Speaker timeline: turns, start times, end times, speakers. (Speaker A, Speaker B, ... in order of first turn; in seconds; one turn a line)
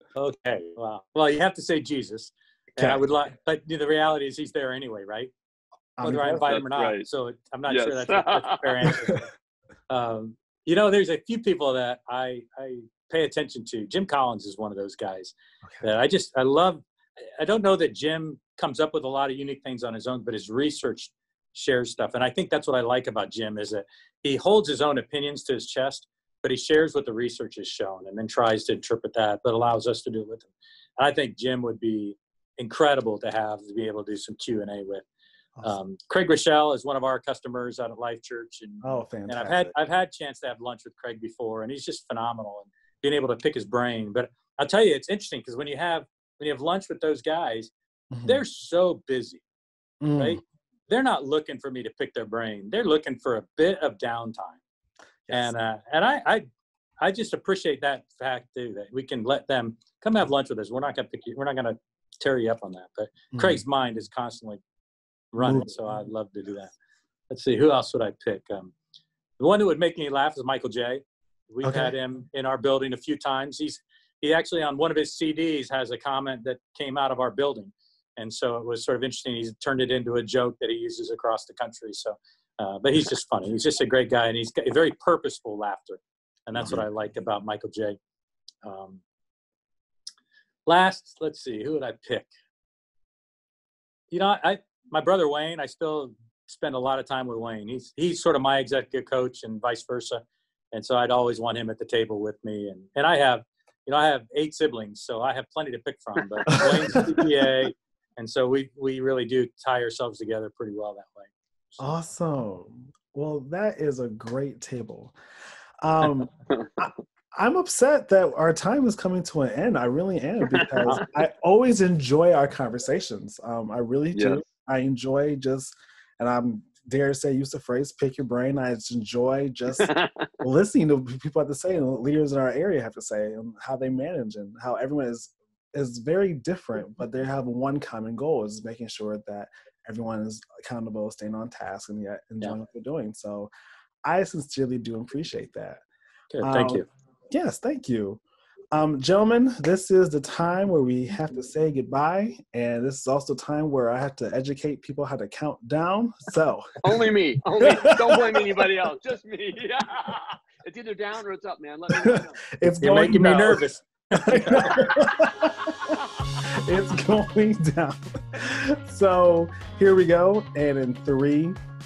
Speaker A: 0.1-5.3
Speaker B: 6.0-6.6
Speaker A: 6.0-9.3
Speaker C: 6.4-7.0
Speaker C: 7.7-9.0
Speaker A: 9.9-16.8
Speaker B: 15.6-15.9
Speaker A: 17.4-35.0
Speaker A: 35.6-47.7
Speaker B: 38.8-39.7
Speaker B: 48.1-48.4
Speaker A: 48.2-49.4
Speaker B: 50.0-50.4
Speaker A: 50.2-54.6
Speaker B: 55.2-55.5
Speaker A: 55.3-56.5
Speaker A: 57.0-64.6
Speaker B: 63.3-63.6
Speaker A: 65.3-66.7
Speaker B: 65.4-65.7
Speaker A: 67.3-68.7
Speaker A: 69.4-88.0
Speaker B: 71.6-71.9
Speaker B: 86.6-86.8
Speaker A: 88.6-89.0
Speaker A: 90.7-92.3
Speaker A: 94.1-112.1
Speaker C: 106.4-106.7
Speaker B: 106.6-107.1
Speaker B: 111.8-115.2
Speaker B: 115.8-143.5
Speaker C: 116.5-116.8
Speaker C: 124.1-124.4
Speaker C: 129.8-130.3
Speaker B: 144.0-145.8
Speaker A: 146.3-146.9
Speaker B: 146.4-148.2
Speaker B: 148.7-157.0
Speaker C: 156.8-162.4
Speaker B: 157.8-158.7
Speaker B: 161.9-163.6
Speaker A: 162.8-165.1
Speaker B: 164.1-165.8
Speaker B: 166.6-171.6